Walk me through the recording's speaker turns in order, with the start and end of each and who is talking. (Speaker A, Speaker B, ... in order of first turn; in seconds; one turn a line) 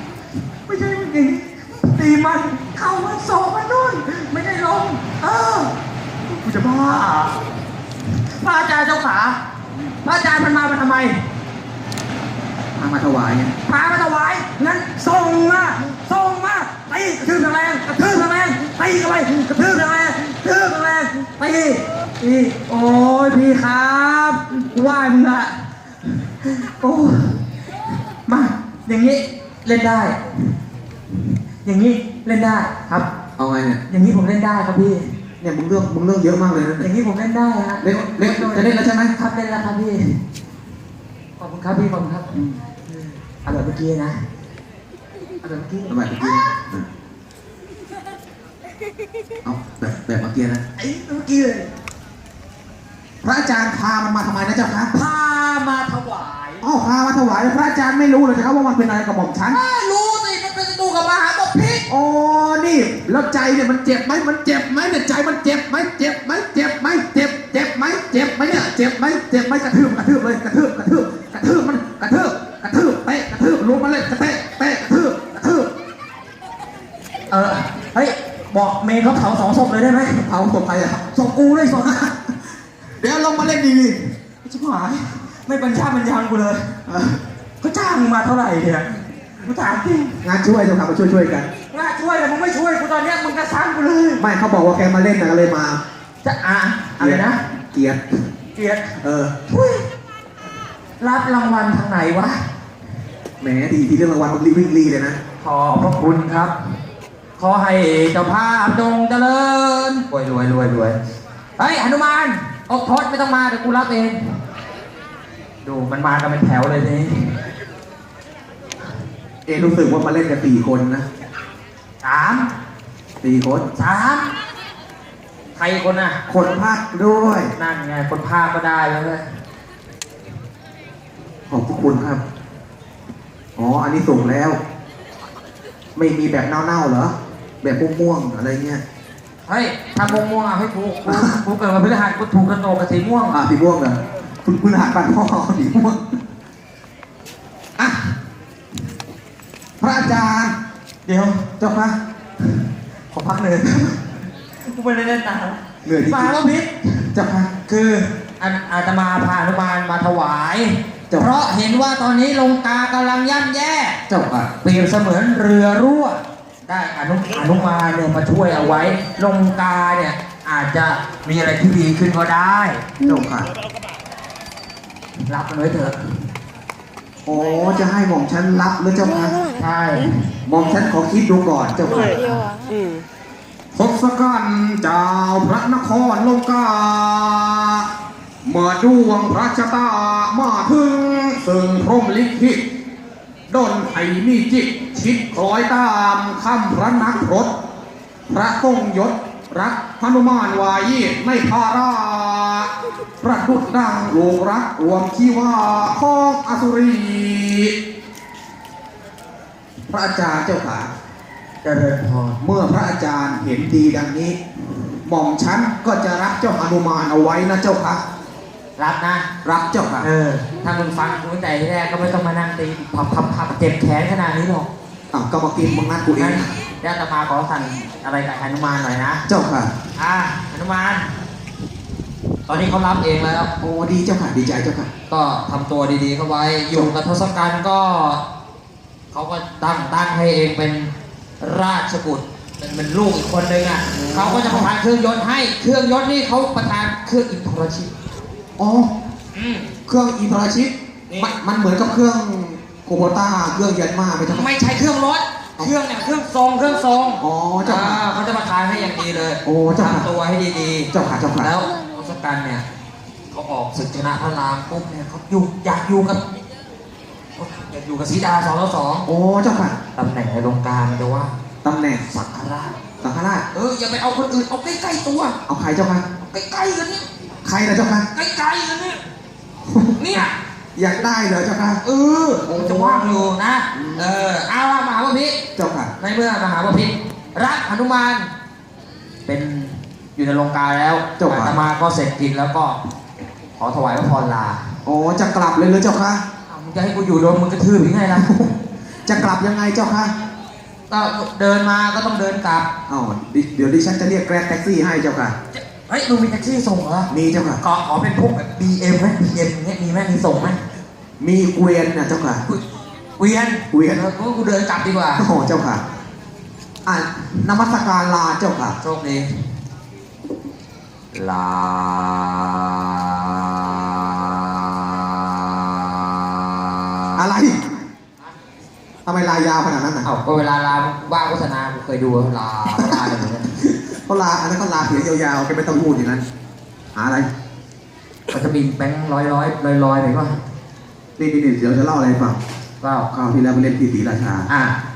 Speaker A: 0.7-5.8
Speaker A: 6.3-7.4
Speaker A: 8.4-9.4
Speaker A: 10.0-11.2
Speaker B: 12.8-13.5
Speaker A: 13.7-25.5
Speaker A: 26.1-27.4
Speaker A: 28.3-30.2
Speaker A: 31.6-33.1
Speaker B: 33.4-33.8
Speaker A: 33.9-35.1
Speaker B: 35.4-36.9
Speaker A: 36.8-40.2
Speaker B: 37.8-39.1
Speaker A: 41.4-42.4
Speaker A: 42.9-44.2
Speaker A: 45.4-46.0
Speaker B: 45.9-46.9
Speaker B: 49.4-50.6
Speaker A: 50.8-51.7
Speaker B: 53.2-54.9
Speaker A: 54.9-56.6
Speaker B: 56.6-59.6
Speaker A: 59.5-61.9
Speaker B: 61.9-75.7
Speaker A: 77.3-80.2
Speaker B: 80.2-81.1
Speaker A: 81.1-82.1
Speaker B: 81.8-82.2
Speaker B: 83.0-84.1
Speaker A: 84.5-86.8
Speaker B: 86.9-87.2
Speaker A: 87.6-90.2
Speaker B: 90.2-91.5
Speaker A: 91.7-94.2
Speaker B: 94.2-95.8
Speaker A: 96.2-97.4
Speaker B: 97.0-98.0
Speaker A: 98.6-99.0
Speaker B: 99.0-99.4
Speaker A: 99.5-99.9
Speaker A: 101.0-102.4
Speaker B: 103.4-105.2
Speaker A: 105.4-106.5
Speaker A: 107.4-111.0
Speaker A: 111.6-114.4
Speaker A: 115.6-117.4
Speaker B: 119.5-121.0
Speaker A: 122.0-122.5
Speaker B: 123.2-123.7
Speaker A: 123.8-124.3
Speaker A: 125.6-126.2
Speaker B: 126.3-127.5
Speaker A: 127.5-129.2
Speaker B: 131.5-132.2
Speaker B: 133.6-134.6
Speaker B: 136.0-138.8
Speaker A: 139.5-143.4
Speaker B: 141.1-141.3
Speaker B: 143.3-146.2
Speaker B: 149.8-150.5
Speaker A: 151.1-151.5
Speaker B: 151.6-152.0
Speaker A: 153.1-154.2
Speaker A: 154.7-157.1
Speaker B: 155.8-156.4
Speaker B: 157.1-157.5
Speaker A: 157.7-164.0
Speaker B: 164.1-164.5
Speaker A: 164.6-172.8
Speaker B: 173.0-173.5
Speaker A: 175.3-176.1
Speaker B: 177.3-179.4
Speaker A: 179.6-180.2
Speaker B: 180.5-182.4
Speaker B: 183.7-187.9
Speaker B: 188.4-192.6
Speaker B: 193.5-197.5
Speaker B: 198.3-207.8
Speaker B: 209.9-210.9
Speaker A: 211.6-212.4
Speaker B: 212.4-214.4
Speaker B: 215.1-218.0
Speaker A: 218.8-219.3
Speaker B: 219.4-220.1
Speaker A: 220.0-224.7
Speaker B: 225.1-226.5
Speaker A: 226.2-229.2
Speaker B: 229.3-229.7
Speaker A: 230.0-231.1
Speaker A: 232.5-233.5
Speaker B: 233.6-234.9
Speaker A: 235.1-238.2
Speaker A: 239.1-247.9
Speaker B: 243.9-244.7
Speaker B: 248.6-248.9
Speaker A: 249.3-249.7
Speaker B: 249.9-254.5
Speaker A: 251.1-251.3
Speaker A: 254.3-262.6
Speaker B: 257.2-258.1
Speaker B: 259.4-260.1
Speaker B: 260.9-261.5
Speaker A: 263.3-266.2
Speaker A: 267.4-269.1
Speaker B: 269.1-269.8
Speaker A: 269.9-271.3
Speaker B: 271.6-272.1
Speaker A: 272.1-272.8
Speaker B: 273.0-273.4
Speaker A: 273.5-275.4
Speaker B: 275.5-276.1
Speaker A: 276.2-277.1
Speaker B: 277.4-278.1
Speaker A: 278.1-279.0
Speaker B: 279.7-280.2
Speaker A: 280.0-280.3
Speaker B: 280.8-281.8
Speaker A: 281.8-285.4
Speaker B: 282.4-284.2
Speaker B: 285.6-285.9
Speaker A: 286.0-288.3
Speaker A: 289.3-292.8
Speaker B: 291.2-291.6
Speaker A: 293.6-294.6
Speaker B: 294.9-296.2
Speaker A: 296.5-298.3
Speaker B: 298.2-298.6
Speaker B: 299.1-300.1
Speaker A: 300.9-302.7
Speaker B: 302.9-305.4
Speaker A: 305.5-307.1
Speaker B: 307.1-307.6
Speaker A: 307.6-310.6
Speaker B: 311.2-312.4
Speaker A: 313.2-315.2
Speaker B: 313.7-314.1
Speaker B: 315.2-315.8
Speaker B: 316.9-318.8
Speaker A: 318.8-319.3
Speaker A: 321.1-327.1
Speaker B: 327.2-327.6
Speaker B: 329.1-330.1
Speaker A: 330.0-333.5
Speaker B: 332.7-333.0
Speaker B: 333.5-336.3
Speaker B: 336.9-337.3
Speaker A: 338.3-340.4
Speaker B: 341.2-342.4
Speaker A: 342.8-343.1
Speaker B: 343.1-344.5
Speaker A: 344.5-344.8